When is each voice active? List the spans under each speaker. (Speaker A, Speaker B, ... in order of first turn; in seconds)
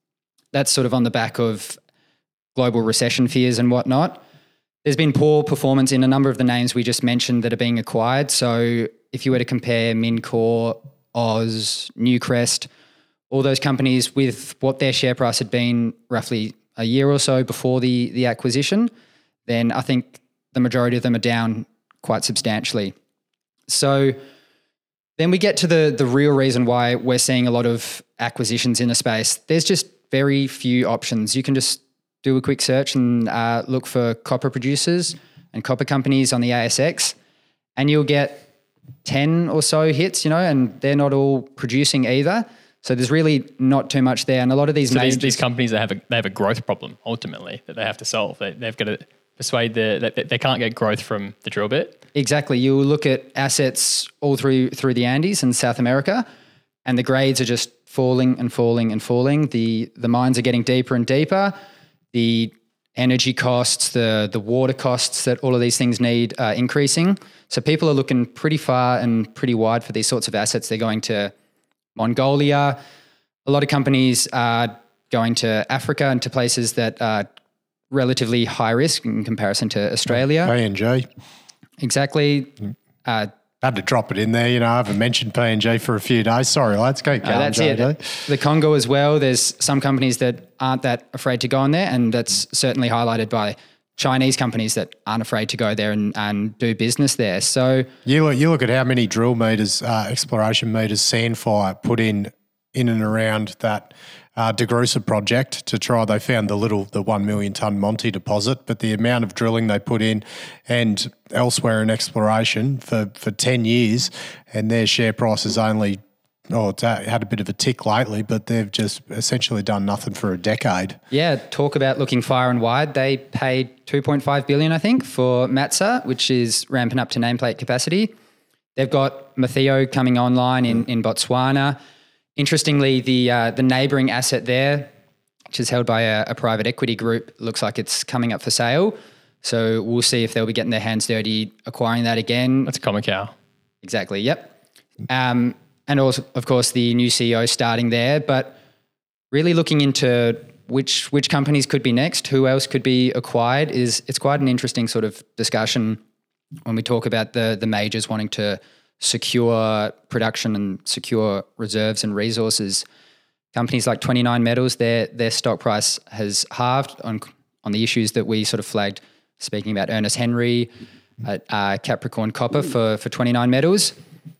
Speaker A: 0.5-1.8, 2.5-4.2, 4.8-12.7, 13.3-18.9, 19.5-22.9, 23.7-24.2, 25.2-37.1, 37.8-38.5, 39.0-45.4, 52.1-56.2, 56.9-61.5, 62.1-71.3, 72.0-72.8, 73.5-77.3, 77.9-80.5, 81.8-83.3, 87.2-97.9, 121.1-128.1, 128.8-131.8, 132.3-134.9, 135.5-142.7, 143.8-144.5, 145.1-148.6, 149.3-156.0, 156.7-162.8, 163.5-170.7, 171.2-173.9
Speaker B: 44.9-52.0, 142.7-143.3
Speaker C: 80.3-81.1, 83.6-88.0, 98.0-121.0